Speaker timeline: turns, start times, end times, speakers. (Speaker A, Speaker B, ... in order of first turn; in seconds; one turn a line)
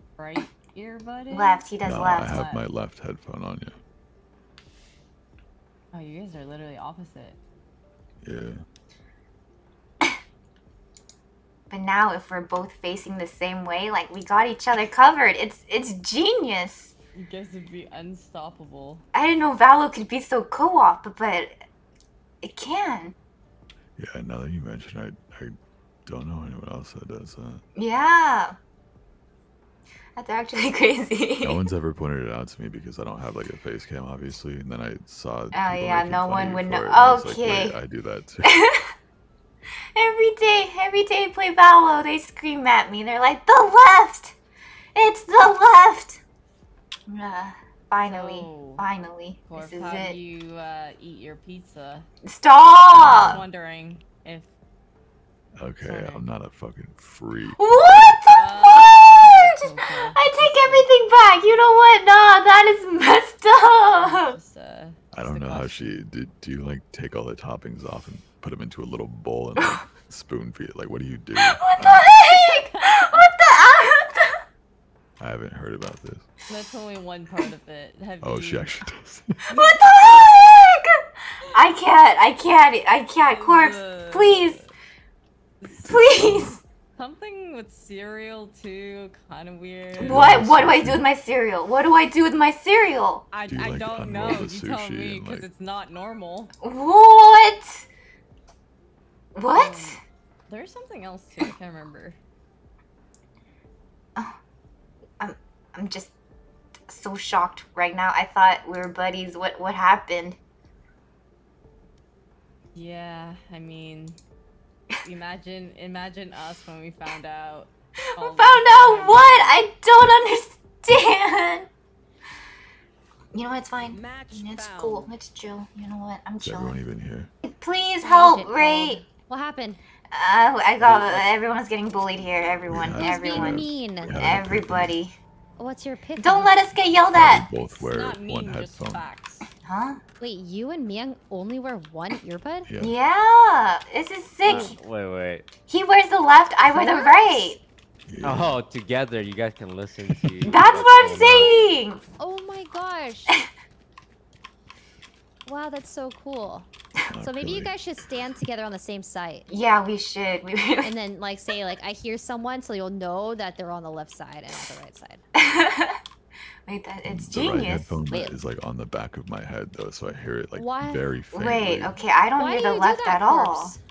Speaker A: 0.2-1.6
Speaker B: 1.3-2.4
Speaker C: 1.8-3.8
Speaker A: 2.2-2.7
Speaker A: 5.9-7.4
Speaker C: 8.2-8.6
Speaker B: 11.7-16.9
Speaker A: 17.1-19.1
Speaker B: 19.1-21.6
Speaker B: 22.4-23.2
Speaker C: 24.0-25.6
Speaker C: 26.1-27.6
Speaker B: 27.8-28.6
Speaker B: 30.2-31.6
Speaker C: 31.4-38.5
Speaker B: 35.5-37.8
Speaker B: 38.4-38.9
Speaker B: 40.0-44.4
Speaker B: 45.0-46.2
Speaker B: 47.1-50.2
Speaker A: 48.0-48.9
Speaker A: 49.5-52.1
Speaker B: 52.3-53.4
Speaker A: 52.9-54.5
Speaker C: 53.0-53.4
Speaker C: 55.6-58.2
Speaker A: 55.8-56.3
Speaker B: 57.6-59.1
Speaker A: 58.3-60.9
Speaker B: 60.1-64.3
Speaker A: 64.0-65.9
Speaker C: 65.1-72.1
Speaker B: 71.4-74.3
Speaker A: 72.2-73.3
Speaker C: 75.2-76.3
Speaker A: 76.5-78.7
Speaker C: 78.2-79.4
Speaker A: 79.5-79.8
Speaker B: 79.5-80.9
Speaker B: 81.5-84.6
Speaker A: 83.3-84.7
Speaker A: 85.6-90.3
Speaker B: 85.8-86.6
Speaker C: 85.8-86.6
Speaker C: 90.0-91.0
Speaker B: 90.0-93.2
Speaker A: 93.3-96.5
Speaker C: 93.5-95.5
Speaker B: 96.6-97.9
Speaker B: 99.4-100.0
Speaker A: 99.5-102.2
Speaker B: 105.2-106.1
Speaker B: 106.9-110.4
Speaker A: 112.7-114.2
Speaker A: 115.0-119.6
Speaker B: 118.2-121.7
Speaker B: 123.3-126.8
Speaker C: 126.4-127.3
Speaker B: 127.5-129.0
Speaker D: 128.0-129.8
Speaker B: 130.1-135.1
Speaker C: 132.7-135.0
Speaker D: 132.9-134.3
Speaker D: 135.6-136.6
Speaker B: 136.2-137.4
Speaker C: 137.1-139.1
Speaker A: 137.7-139.5
Speaker B: 139.6-140.0
Speaker D: 140.2-142.7
Speaker C: 142.7-142.9
Speaker B: 142.8-144.8
Speaker E: 144.4-145.5
Speaker B: 145.7-147.6
Speaker D: 146.7-147.6
Speaker C: 148.1-148.6
Speaker E: 148.2-151.7
Speaker B: 150.4-152.0
Speaker D: 152.2-153.3
Speaker D: 155.5-159.5
Speaker C: 157.1-157.7
Speaker B: 159.5-160.9
Speaker D: 160.8-165.2
Speaker B: 165.4-166.0
Speaker B: 166.7-167.9
Speaker C: 167.1-172.0
Speaker D: 168.1-168.3
Speaker D: 170.5-171.1
Speaker B: 171.3-173.8
Speaker D: 172.4-173.8